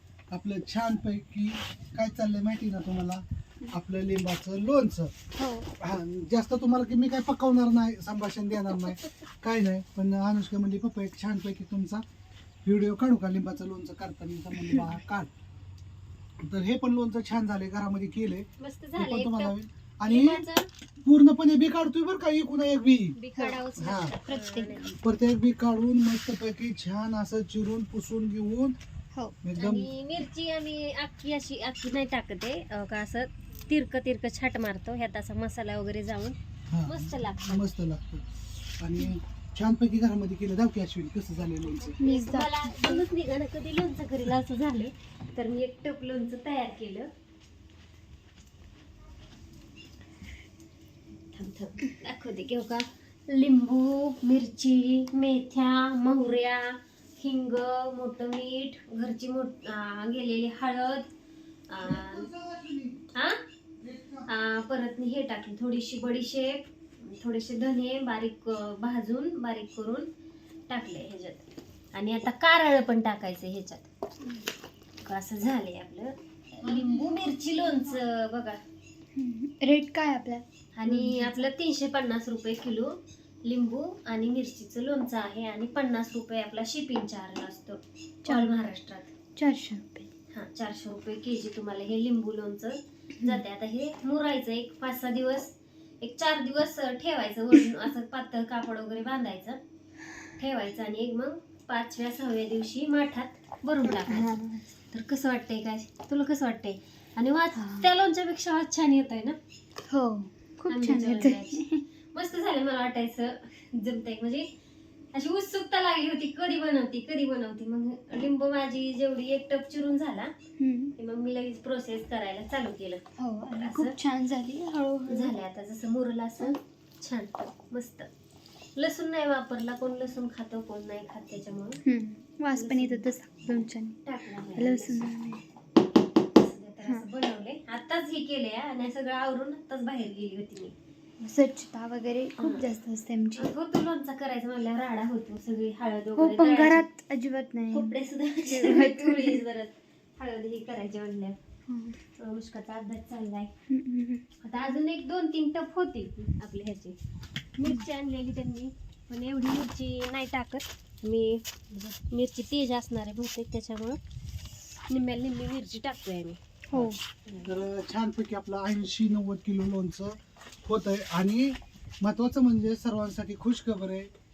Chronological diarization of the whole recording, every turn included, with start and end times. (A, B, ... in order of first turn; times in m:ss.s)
0:00.3-0:05.1 A
0:05.4-0:05.7 B
0:05.8-0:12.0 A
0:12.6-0:15.3 A
0:16.4-0:20.4 A
0:18.6-0:19.6 C
0:20.1-0:20.7 C
0:21.0-0:23.2 A
0:23.2-0:25.0 C
0:23.4-0:23.6 B
0:23.8-0:24.2 A
0:24.3-0:24.9 B
0:25.0-0:28.8 A
0:29.4-0:29.9 A
0:29.6-0:37.7 C
0:36.7-0:38.2 A
0:38.8-0:42.0 A
0:41.4-0:47.1 C
0:42.0-0:43.0 B
0:51.3-1:01.1 C
1:01.7-1:02.3 C
1:01.8-1:03.0 A
1:03.8-1:04.3 A
1:04.3-1:10.1 C
1:10.7-1:13.9 C
1:15.0-1:18.6 C
1:16.6-1:18.0 A
1:19.2-1:21.5 B
1:20.8-1:22.9 C
1:23.4-1:29.1 C
1:29.4-1:30.1 B
1:30.3-1:39.6 C
1:40.4-1:44.4 C
1:44.1-1:44.6 B
1:44.9-1:49.4 C
1:47.6-1:47.9 B
1:49.9-1:51.8 B
1:50.7-1:54.5 C
1:55.1-2:00.3 C
2:00.6-2:00.9 B
2:01.0-2:04.0 C
2:03.2-2:05.3 B
2:05.1-2:08.1 C
2:08.8-2:11.8 C
2:11.8-2:14.0 B
2:12.5-2:13.1 C
2:14.0-2:15.1 C
2:14.6-2:15.4 B
2:16.3-2:20.7 C
2:21.2-2:23.5 B
2:22.4-2:22.7 C
2:23.4-2:26.9 C
2:26.2-2:28.0 B
2:27.7-2:31.4 C
2:28.5-2:29.4 B
2:31.7-2:32.0 B
2:32.2-2:33.5 C
2:33.7-2:34.2 B
2:34.4-2:37.0 C
2:37.6-2:44.0 C
2:44.9-2:46.4 C
2:46.7-2:47.0 B
2:47.3-2:47.6 C
2:47.5-2:54.1 A